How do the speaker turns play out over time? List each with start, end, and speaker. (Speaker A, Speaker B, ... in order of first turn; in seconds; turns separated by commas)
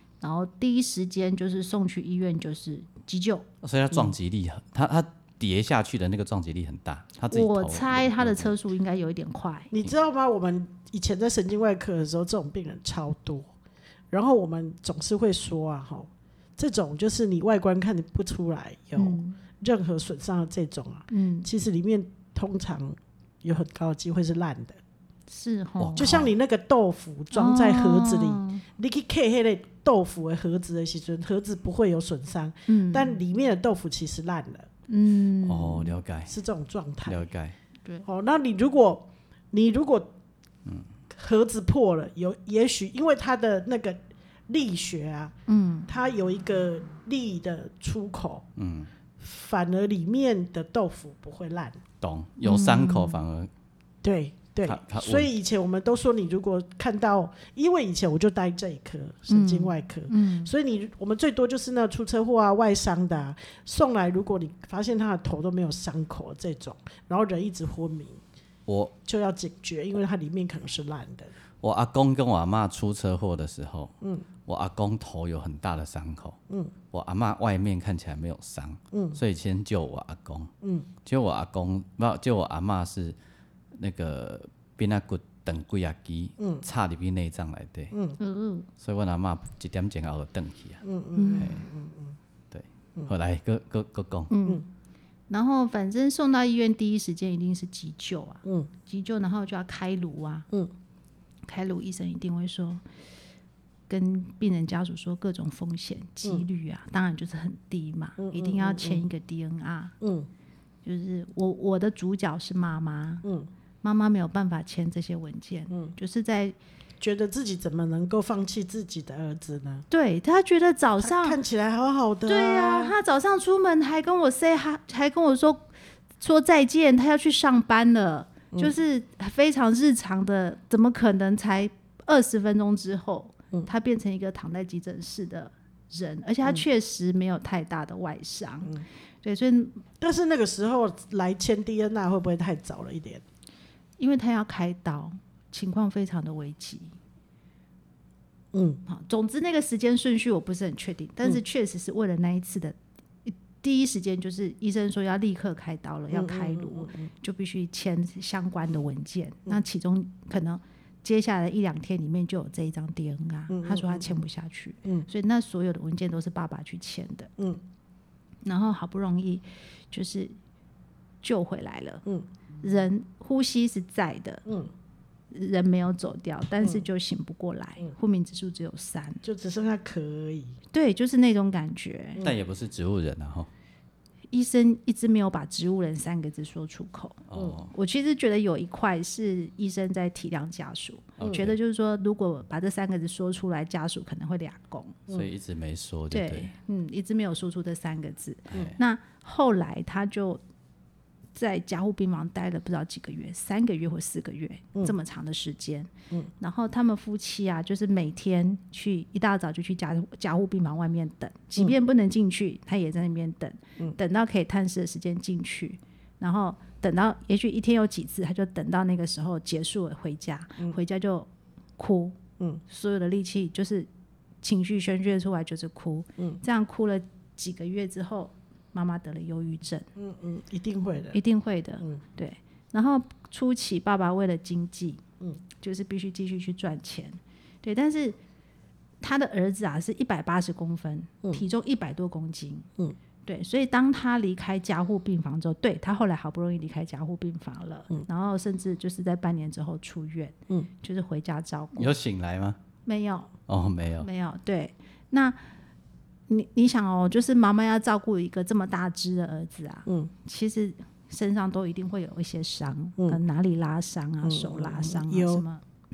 Speaker A: 0.2-3.4, Speaker B: 3.6-8.5, Speaker A: 7.3-9.7, Speaker C: 9.7-13.5, Speaker C: 14.1-24.8, Speaker A: 18.9-19.4, Speaker A: 21.1-21.5, Speaker A: 25.3-26.2, Speaker B: 25.8-26.3, Speaker C: 26.0-34.7, Speaker A: 27.3-28.6, Speaker A: 32.7-33.2, Speaker A: 34.9-35.9, Speaker B: 35.4-36.3, Speaker C: 36.3-37.2, Speaker B: 37.0-37.5, Speaker C: 38.0-40.1, Speaker C: 41.1-45.3, Speaker A: 45.5-45.9, Speaker C: 45.9-48.5, Speaker B: 48.6-48.9, Speaker C: 49.2-51.8, Speaker B: 52.0-53.5, Speaker A: 52.4-53.2, Speaker C: 54.0-68.2, Speaker B: 54.6-55.3, Speaker A: 59.3-60.5, Speaker B: 68.7-68.9, Speaker C: 69.0-71.3, Speaker B: 71.6-73.9, Speaker B: 74.5-76.4, Speaker B: 76.9-80.5, Speaker C: 78.9-79.2, Speaker C: 80.6-80.9, Speaker B: 81.0-83.2, Speaker B: 83.8-87.9, Speaker C: 86.4-86.6, Speaker C: 87.9-88.2, Speaker A: 88.2-88.7, Speaker B: 88.8-90.8, Speaker C: 90.8-92.2, Speaker A: 91.1-91.6, Speaker B: 91.3-91.6, Speaker B: 92.5-94.3, Speaker A: 94.3-94.6, Speaker A: 95.3-100.5, Speaker C: 98.4-98.7, Speaker A: 101.5-102.8, Speaker A: 103.9-109.9, Speaker C: 108.2-109.1, Speaker C: 110.0-110.3, Speaker A: 110.8-113.2, Speaker C: 113.2-113.5, Speaker A: 113.8-116.5, Speaker C: 117.0-119.8, Speaker A: 119.9-121.4, Speaker C: 121.0-123.0, Speaker A: 122.3-125.7, Speaker A: 126.2-139.8, Speaker C: 140.0-143.2, Speaker A: 144.0-146.9, Speaker C: 148.5-148.8, Speaker A: 148.9-167.3, Speaker C: 156.1-157.1, Speaker C: 163.5-164.2, Speaker A: 168.4-170.3, Speaker A: 171.2-172.0, Speaker A: 172.6-174.4, Speaker A: 175.3-179.2, Speaker C: 179.2-180.6, Speaker A: 180.7-182.2, Speaker B: 182.2-183.5, Speaker A: 184.3-195.0, Speaker B: 187.3-187.7, Speaker B: 191.2-191.5, Speaker C: 191.2-191.5, Speaker B: 195.1-196.5, Speaker A: 196.1-200.4, Speaker B: 198.5-198.8, Speaker A: 201.3-223.9, Speaker A: 224.4-229.9, Speaker C: 229.9-231.2, Speaker A: 231.1-235.0, Speaker A: 235.6-238.2, Speaker A: 239.0-242.7, Speaker A: 243.2-251.9, Speaker B: 251.8-252.6, Speaker A: 252.8-253.3, Speaker B: 253.5-254.1, Speaker A: 254.0-255.4, Speaker A: 256.3-265.6, Speaker C: 264.2-265.4